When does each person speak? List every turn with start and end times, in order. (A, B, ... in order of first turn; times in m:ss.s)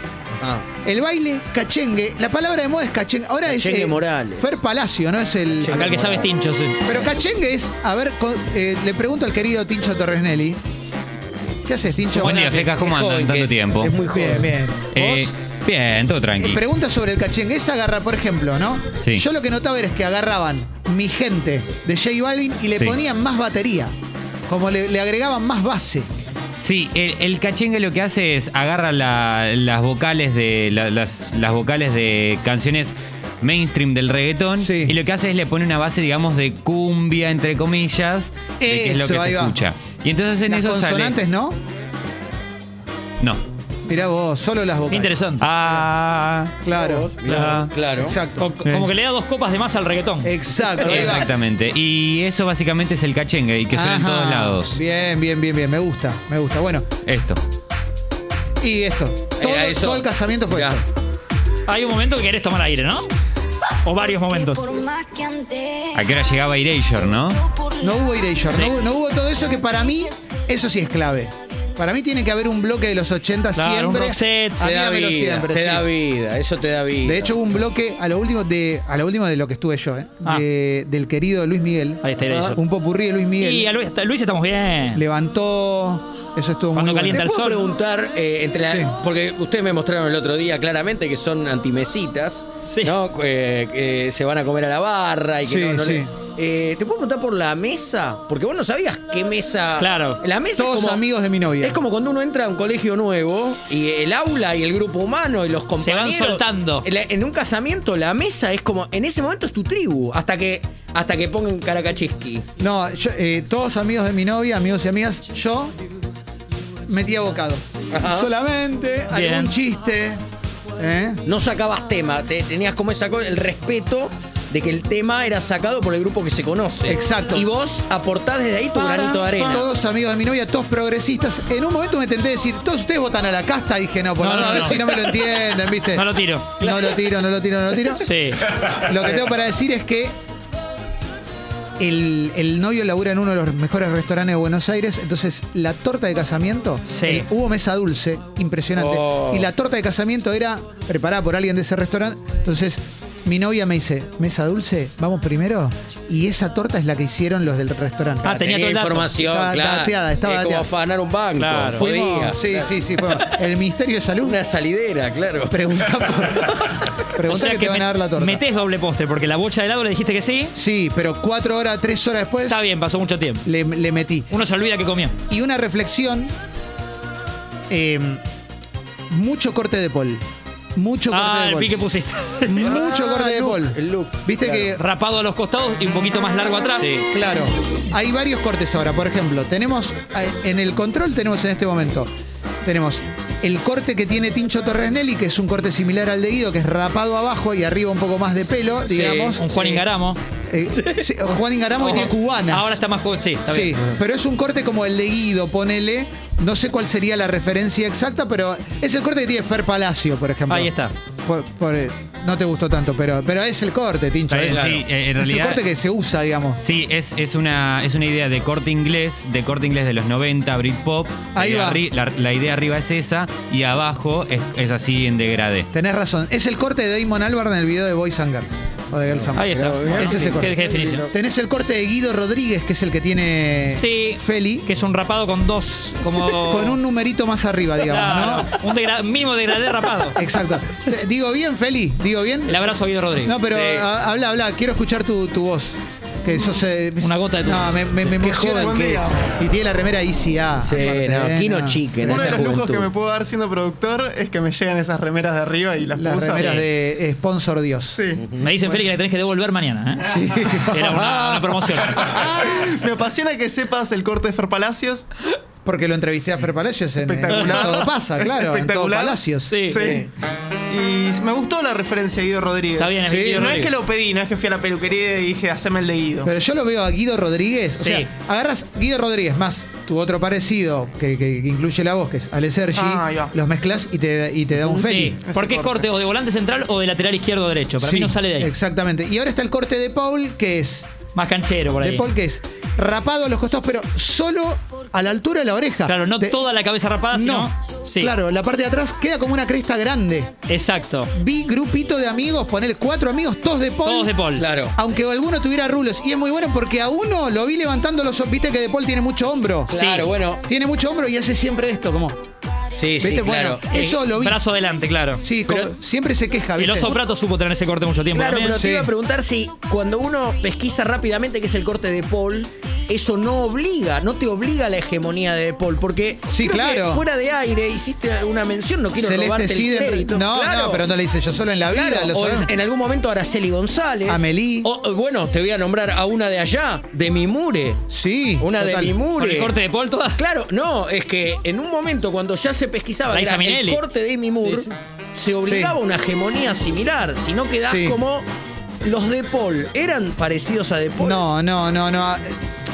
0:00.3-0:00.7 A
0:00.8-0:06.0 B
0:03.5-0:04.5 A
0:05.6-0:06.3 A
0:05.7-0:06.8 C
0:06.8-0:10.6 B
0:11.6-0:12.7 B
0:12.1-0:13.9 D
0:12.2-0:14.5 A
0:13.8-0:15.4 B
0:14.9-0:16.6 D
0:16.4-0:24.0 B
0:24.5-0:26.1 B
0:26.6-0:41.2 D
0:34.6-0:35.0 B
0:38.6-0:39.6 B
0:40.5-0:41.6 B
0:43.9-0:45.2 B
0:44.9-0:45.8 C
0:45.4-0:46.5 D
0:46.6-0:47.1 B
0:46.7-0:48.2 A
0:47.3-0:47.7 D
0:47.3-0:47.7 C
0:47.9-0:48.9 B
0:48.4-0:50.3 C
0:50.2-0:51.3 B
0:50.8-0:54.8 D
0:50.8-0:51.2 A
0:53.7-0:56.9 B
0:57.0-0:57.4 D
0:58.6-1:00.8 B
0:59.4-1:00.8 A
1:01.7-1:03.1 C
1:03.8-1:05.0 C
1:05.9-1:07.5 D
1:07.8-1:15.9 B
1:13.6-1:14.6 C
1:14.6-1:17.4 A
1:17.0-1:23.7 B
1:22.0-1:22.6 C
1:22.2-1:22.6 A
1:23.4-1:25.0 C
1:24.9-1:27.3 B
1:26.8-1:27.7 C
1:27.1-1:41.0 A
1:28.6-1:29.0 B
1:32.6-1:33.0 C
1:35.4-1:36.1 B
1:39.8-1:40.2 C
1:40.5-1:41.8 B
1:41.6-1:52.4 A
1:45.8-1:46.9 C
1:52.6-1:55.8 B
1:56.9-2:00.2 B
1:57.9-1:58.3 A
1:59.1-1:59.6 C
2:00.8-2:01.2 B
2:01.3-2:09.7 A
2:06.9-2:07.5 B
2:08.8-2:09.6 C
2:09.4-2:20.1 B
2:14.2-2:15.0 C
2:15.9-2:16.5 C
2:16.6-2:17.0 A
2:18.0-2:18.4 C
2:21.8-2:38.4 B
2:26.9-2:27.3 C
2:28.8-2:29.5 A
2:38.2-2:39.1 C
2:38.2-2:43.4 A
2:39.1-2:40.7 B
2:41.4-2:41.9 C
2:41.7-2:44.4 B
2:44.2-2:47.0 A
2:45.5-2:48.4 B
2:47.3-2:50.5 C
2:50.6-2:52.7 B
2:52.5-2:53.5 C
2:53.4-2:54.3 B
2:54.3-2:55.2 C
2:55.3-2:56.3 B
2:57.7-2:58.2 B
2:59.1-3:00.2 B
3:00.8-3:01.8 B
3:01.1-3:02.7 C
3:02.5-3:04.8 B
3:02.6-3:04.7 A
3:04.7-3:07.0 C
3:06.8-3:07.1 A
3:07.1-3:12.1 B
3:12.6-3:19.8 B
3:18.9-3:19.8 A
3:19.4-3:20.2 C
3:20.5-3:22.8 B
3:20.8-3:21.1 A
3:21.8-3:23.8 C
3:23.5-3:30.7 B
3:30.5-3:30.9 C
3:31.2-3:36.6 B
3:34.3-3:35.6 D
3:34.5-3:34.8 A
3:36.6-3:45.7 D
3:41.4-3:41.8 B
3:45.7-3:54.7 B
3:49.2-3:51.1 A
3:49.4-3:51.1 C
3:53.8-3:56.8 C
3:56.2-3:58.6 B
3:57.8-4:00.2 C
4:00.2-4:02.6 B
4:02.5-4:03.4 C
4:03.2-4:12.6 B
4:03.5-4:03.9 A
4:07.0-4:07.8 C
4:08.2-4:09.3 E
4:10.6-4:12.9 A
4:12.0-4:16.6 E
4:16.0-4:18.0 B
4:16.3-4:16.7 C
4:18.0-4:18.2 E
4:18.2-4:18.5 A
4:18.4-4:22.1 C
4:20.0-4:22.1 B
4:21.9-4:25.1 E
4:25.6-4:29.6 B
4:27.0-4:30.1 E
4:27.3-4:27.9 C
4:29.5-4:29.9 C
4:29.8-4:30.1 A
4:30.7-4:36.3 E
4:32.8-4:33.8 C
4:33.0-4:33.6 B
4:36.2-4:45.2 B
4:37.8-4:38.1 C
4:42.8-4:43.3 E
4:44.6-4:48.5 C
4:45.2-4:45.8 E
4:47.8-4:50.9 B
4:51.2-4:52.1 C
4:51.8-4:56.4 B
4:55.9-4:58.1 C
4:57.1-5:00.3 B
5:00.5-5:01.1 C
5:01.1-5:04.1 B
5:03.8-5:04.5 C
5:04.4-5:04.8 A
5:04.7-5:09.7 B
5:09.7-5:10.4 A
5:09.7-5:10.1 C
5:10.4-5:12.2 B
5:12.8-5:14.0 A
5:13.0-5:14.4 B
5:13.8-5:15.2 C
5:15.2-5:17.0 B
5:16.6-5:18.6 C
5:18.1-5:30.9 A
5:18.5-5:18.9 B
5:26.3-5:27.0 B
5:29.0-5:32.5 B
5:31.7-5:37.8 A
5:34.1-5:34.7 B
5:37.9-5:39.0 B
5:38.4-5:39.5 A
5:39.2-5:40.2 C
5:40.2-5:48.3 A
5:43.1-5:43.8 C
5:45.4-5:45.8 B
5:47.6-5:48.0 B
5:48.8-5:51.2 A
5:51.0-5:52.4 B